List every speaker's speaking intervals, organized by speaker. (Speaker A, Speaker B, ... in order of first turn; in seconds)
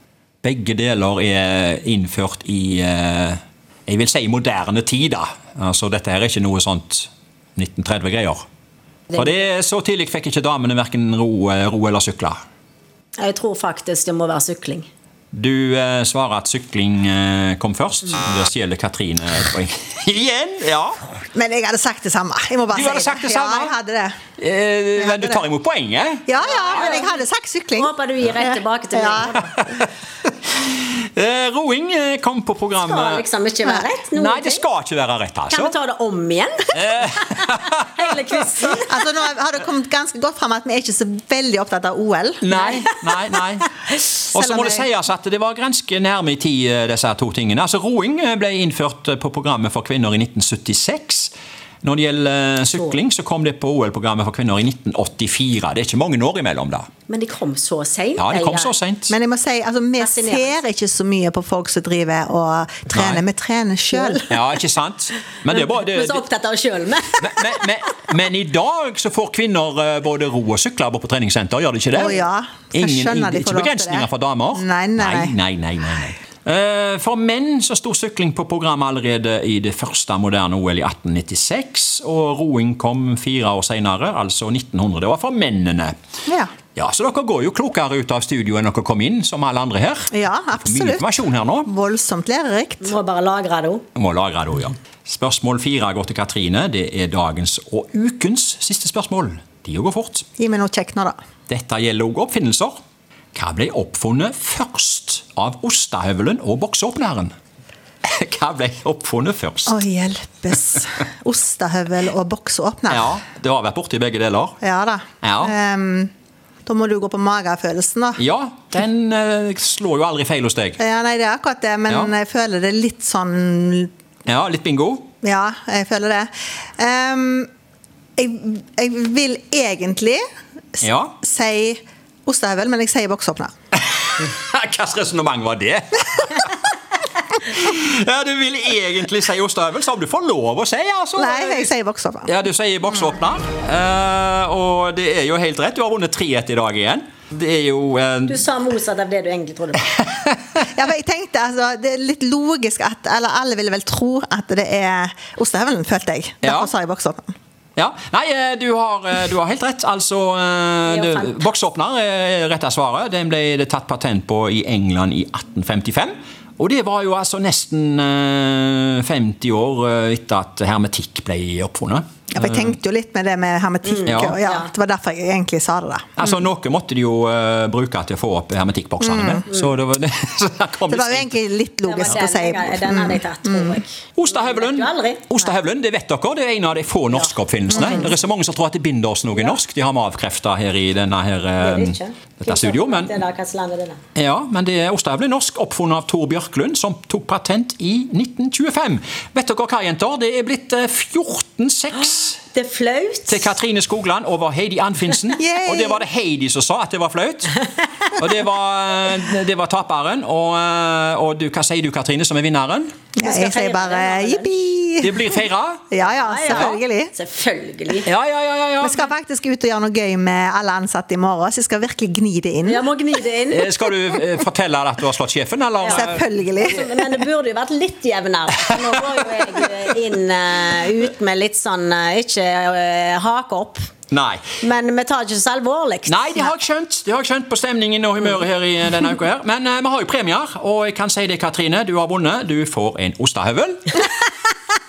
Speaker A: 0.4-8.5, 9.1-12.4, 15.3-21.0, 22.7-23.8, 24.4-27.1, 29.5-29.9, 30.5-33.2, 34.1-35.7, 36.7-38.8, 42.4-51.3, 51.8-56.9, 58.2-59.1, 62.9-63.2, 64.3-66.2, 67.2-72.2, 72.7-85.9, 86.8-91.7, 94.0-100.3, 101.5-102.8, 103.3-107.3, 108.0-109.8, 112.9-114.6, 115.2-115.5, 118.2-120.8, 124.3-125.1, 130.8-131.2, 133.8-136.7, 137.3-141.7, 142.3-148.4, 150.2-150.6, 156.4-156.7, 157.8-172.8, 174.1-174.4, 176.2-181.4, 184.2-193.1, 194.2-202.4, 203.3-207.6, 208.1-212.9, 215.0-215.9, 216.5-216.8, 218.1-219.1, 223.5-227.1, 228.6-229.0, 234.1-234.4, 236.1-244.1
Speaker B: 13.2-14.9, 26.5-27.2, 27.8-29.6, 32.8-34.6, 35.5-38.9, 42.5-43.4, 57.1-58.8, 60.0-60.6, 63.9-64.3, 65.5-67.7, 92.8-93.8, 148.3-149.9, 160.9-161.4, 173.8-174.7, 181.8-185.5, 187.1-188.1, 191.6-194.0, 202.5-203.5, 213.2-214.7, 216.0-218.1, 222.7-223.7, 225.8-233.9, 234.6-236.5
Speaker C: 21.4-24.2, 25.0-25.4, 26.3-29.4, 38.8-42.4, 44.4-44.8, 59.1-64.3, 71.9-75.3, 90.1-91.1, 91.7-93.0, 100.4-101.2, 109.7-113.1, 114.6-116.1, 116.7-118.2, 120.8-123.9, 125.2-127.5, 128.2-130.2, 130.8-133.5, 141.2-142.3, 150.6-157.3, 172.3-176.2, 179.0-179.4, 180.9-183.8, 187.8-188.1, 205.4-206.0, 213.2-215.4, 215.9-217.1, 218.8-222.9, 225.9-226.8